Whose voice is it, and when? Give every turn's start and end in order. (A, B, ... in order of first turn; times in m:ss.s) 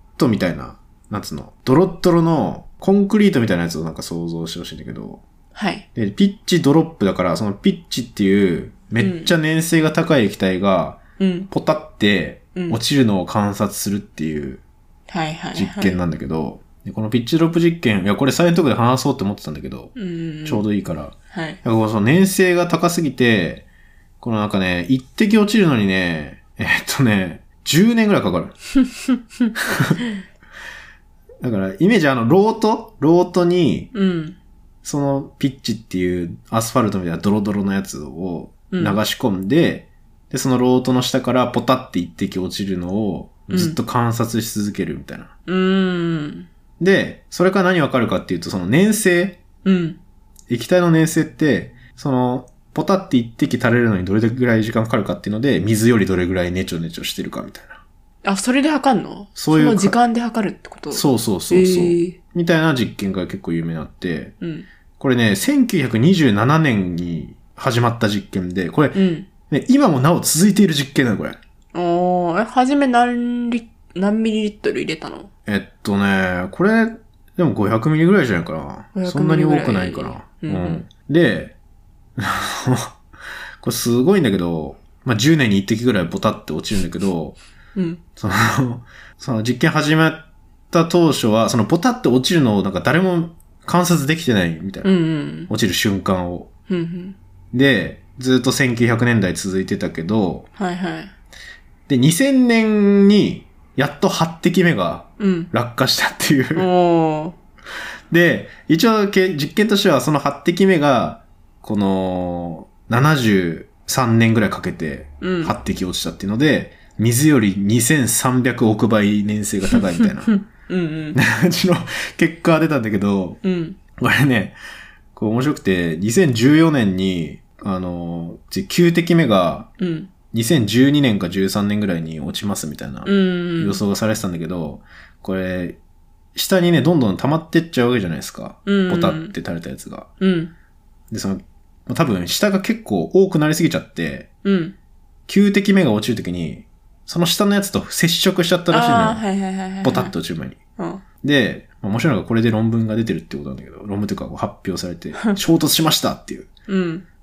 0:00.2-0:05.2 A
0:05.5-0:05.8 B
0:06.0-0:14.6 A
0:09.0-0:09.3 B
0:11.2-0:11.5 B
0:12.5-0:12.8 B
0:15.1-0:16.0 B
0:15.5-0:19.9 A
0:20.0-0:20.6 B
0:20.4-0:23.6 A
0:21.3-0:21.6 B
0:24.2-0:28.5 A
0:28.9-0:30.1 B
0:29.7-0:30.0 A
0:31.4-0:33.9 A
0:33.9-0:34.4 B
0:34.8-0:45.3 A
0:38.7-0:39.0 B
0:43.5-0:43.8 B
0:45.5-0:46.5 B
0:46.8-0:49.4 A
0:49.6-0:50.0 B
0:50.5-0:57.8 A
0:58.2-1:02.2 B
0:59.4-1:00.0 A
1:00.9-1:04.4 A
1:04.4-1:04.7 B
1:05.0-1:11.4 A
1:08.9-1:09.3 B
1:11.7-1:15.3 B
1:15.5-1:21.5 A
1:19.0-1:20.8 B
1:22.2-1:23.0 A
1:23.6-1:27.4 A
1:27.8-1:28.0 B
1:28.2-1:34.9 A
1:34.8-1:35.5 B
1:35.5-1:36.5 A
1:36.7-1:37.2 B
1:37.5-1:40.5 A
1:40.6-1:41.1 B
1:41.9-1:46.7 A
1:45.2-1:45.5 B
1:46.5-1:47.4 B
1:48.1-2:00.3 A
1:55.2-1:55.6 B
1:59.8-2:01.2 B
2:01.1-2:03.4 A
2:03.4-2:03.8 B
2:04.0-2:04.6 A
2:05.1-2:09.7 A
2:09.8-2:10.1 B
2:10.3-2:15.8 A
2:13.0-2:13.8 B
2:16.4-2:20.1 A
2:18.6-2:19.4 B
2:20.2-2:20.5 B
2:21.1-2:24.3 A
2:24.4-2:24.7 B
2:25.3-2:29.2 A
2:28.7-2:30.1 B
2:29.8-2:30.6 A
2:30.8-2:31.0 B
2:31.2-2:36.5 A
2:36.7-2:37.0 B